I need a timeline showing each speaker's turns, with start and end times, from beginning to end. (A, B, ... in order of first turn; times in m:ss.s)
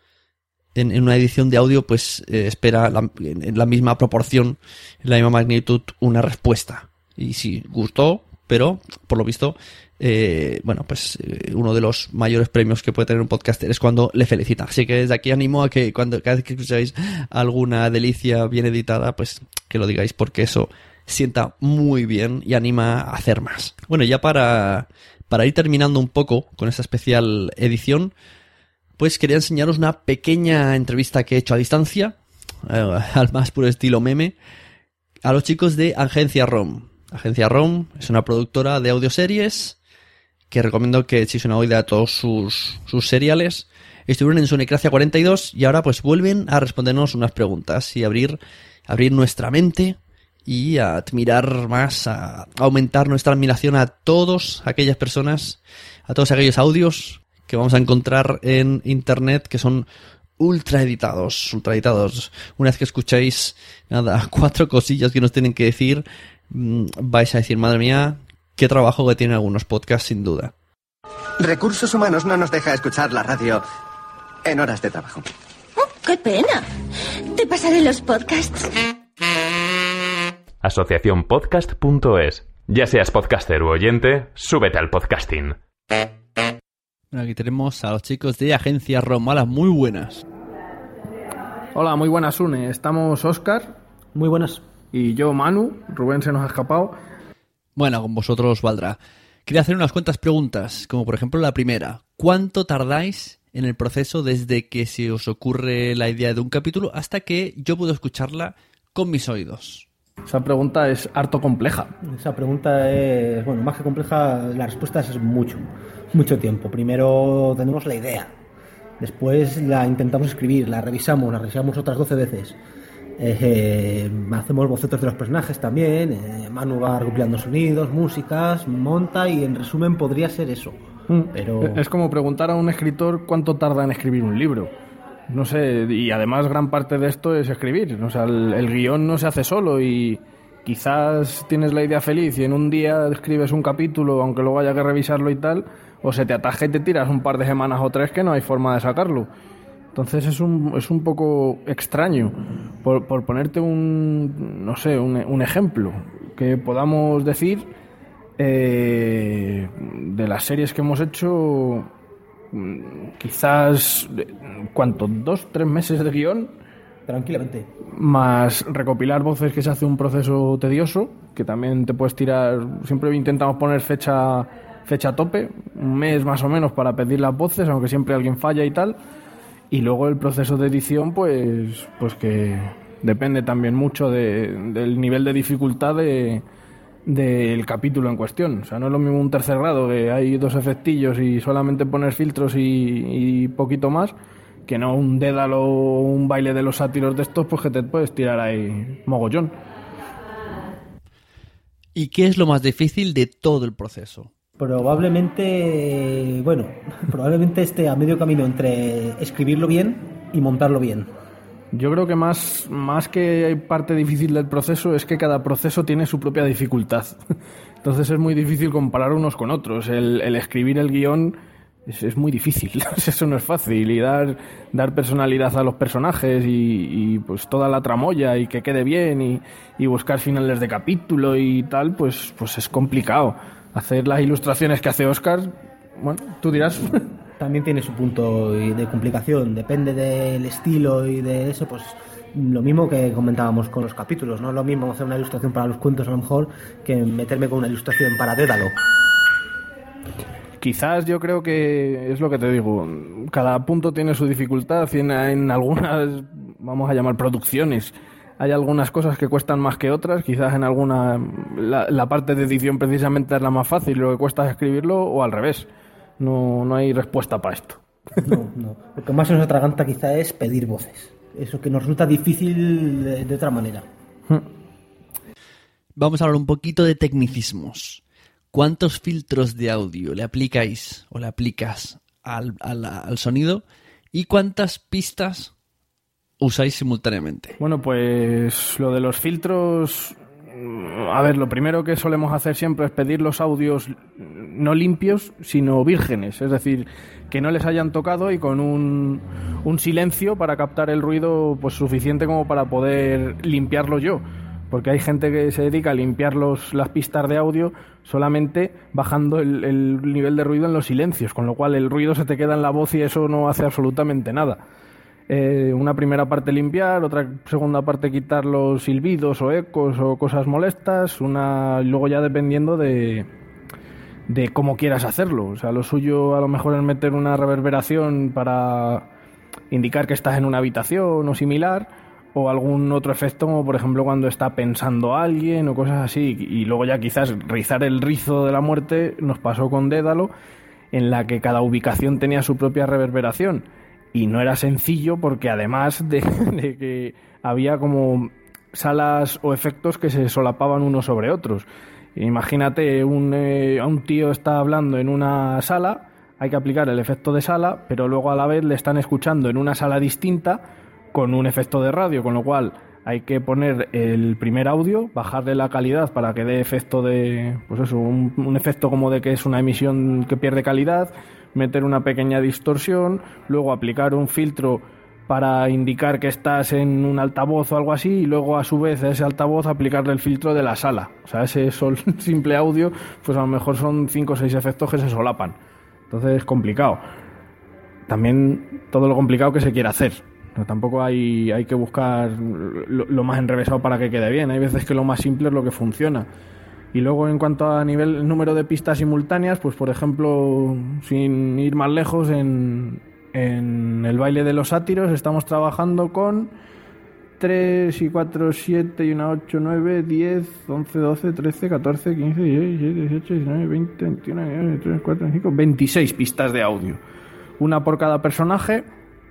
0:00.7-0:28.1 A
0:29.0-0:32.2 A
0:32.7-0:34.3 A
0:35.2-0:39.8 A
0:40.5-0:59.8 A
1:00.4-1:10.5 A
1:11.4-1:13.6 B
1:14.5-1:15.2 B
1:15.8-1:16.6 C
1:17.3-1:18.7 C
1:20.6-1:25.6 D
1:27.1-1:30.2 A
1:31.7-1:33.8 E
1:34.1-1:34.6 F
1:34.9-1:36.9 E
1:37.8-1:49.8 A
1:50.3-1:51.9 E
1:52.0-1:58.3 F
1:59.0-2:02.6 F
2:03.2-2:10.8 F
2:11.1-2:14.7 E
2:11.3-2:11.8 F
2:15.3-2:29.3 E
2:29.9-2:37.7 E
2:38.4-2:41.9 E
2:42.5-2:46.5 E
2:47.1-2:47.7 F
2:47.9-2:59.0 E
2:59.7-3:06.4 E
3:07.0-3:14.1 E
3:14.7-3:19.5 E
3:21.9-3:24.3 A
3:24.6-3:31.1 F
3:31.7-3:37.2 E
3:37.8-3:41.4 E
3:41.9-3:57.0 E
3:57.4-4:08.8 F
4:10.6-4:25.7 E
4:26.2-4:27.8 E
4:28.2-4:33.8 F
4:36.0-4:38.0 A
4:38.5-4:45.5 A
4:46.4-4:47.6 A
4:47.6-5:14.6 E
5:15.3-5:23.3 E
5:24.3-5:29.1 E
5:29.7-5:40.3 E
5:40.9-6:00.6 E
6:01.1-6:25.6 E
6:26.1-6:27.0 E
6:28.1-6:36.3 E
6:36.9-6:46.5 E
6:47.4-6:57.0 E
6:57.6-6:58.8 E